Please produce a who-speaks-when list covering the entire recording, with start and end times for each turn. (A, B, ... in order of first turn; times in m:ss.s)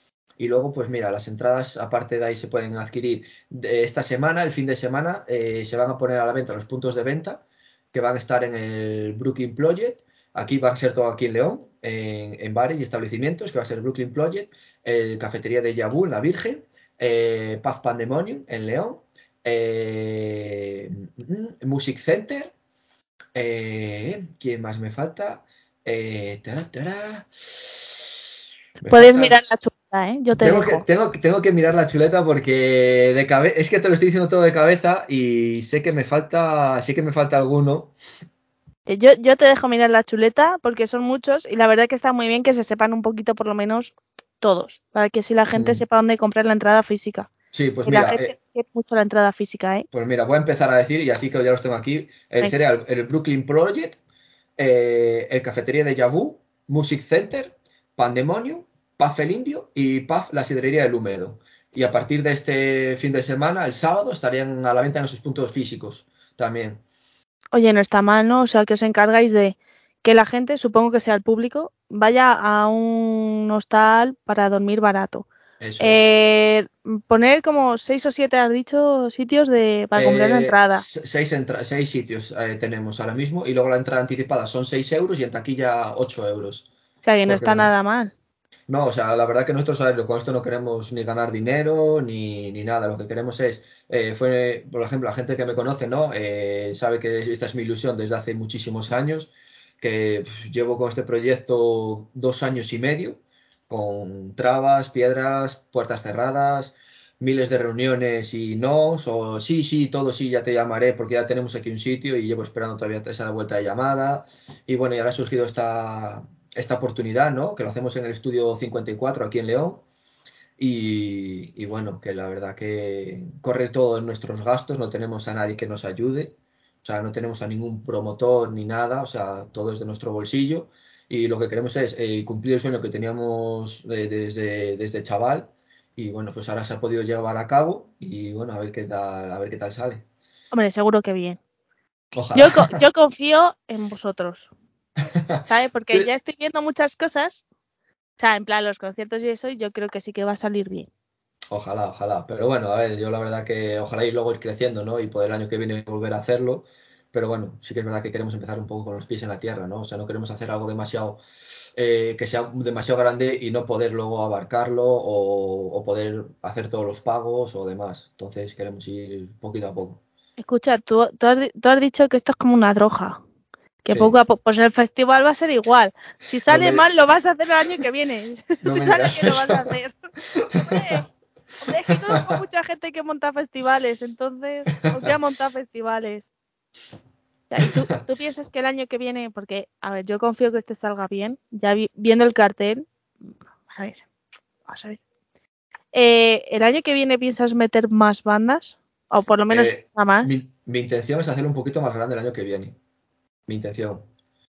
0:00.4-0:22.5 A
0:23.3-0:28.0 A
0:28.8-0:29.4 A
0:28.8-0:30.8 B
0:30.4-0:37.9 A
0:38.9-0:47.3 B
0:45.5-0:45.8 A
0:47.5-0:48.3 A
0:47.8-0:49.8 B
0:49.9-0:54.0 A
0:54.6-1:06.8 A
1:07.5-1:15.3 B
1:15.6-1:16.0 A
1:15.8-1:20.8 B
1:20.0-1:26.7 A
1:27.0-1:28.1 B
1:27.2-1:27.7 A
1:28.7-1:59.8 A
2:00.6-2:20.0 A
2:20.5-2:21.4 B
2:22.2-2:22.8 A
2:22.3-2:24.5 B
2:25.1-2:26.1 A
2:25.5-2:27.4 B
2:28.2-2:30.9 B
2:31.5-2:41.2 A
2:41.8-2:50.0 A
2:50.4-2:53.2 B
2:53.8-3:00.0 B
2:56.5-2:56.8 A
2:58.6-2:59.6 A
3:00.3-3:01.0 A
3:00.5-3:01.0 B
3:01.6-3:06.3 B
3:01.9-3:02.3 A
3:07.5-3:12.9 B
3:13.7-3:14.0 B
3:14.7-3:15.0 B
3:15.9-3:20.4 B
3:19.5-3:22.8 A
3:23.5-3:24.1 A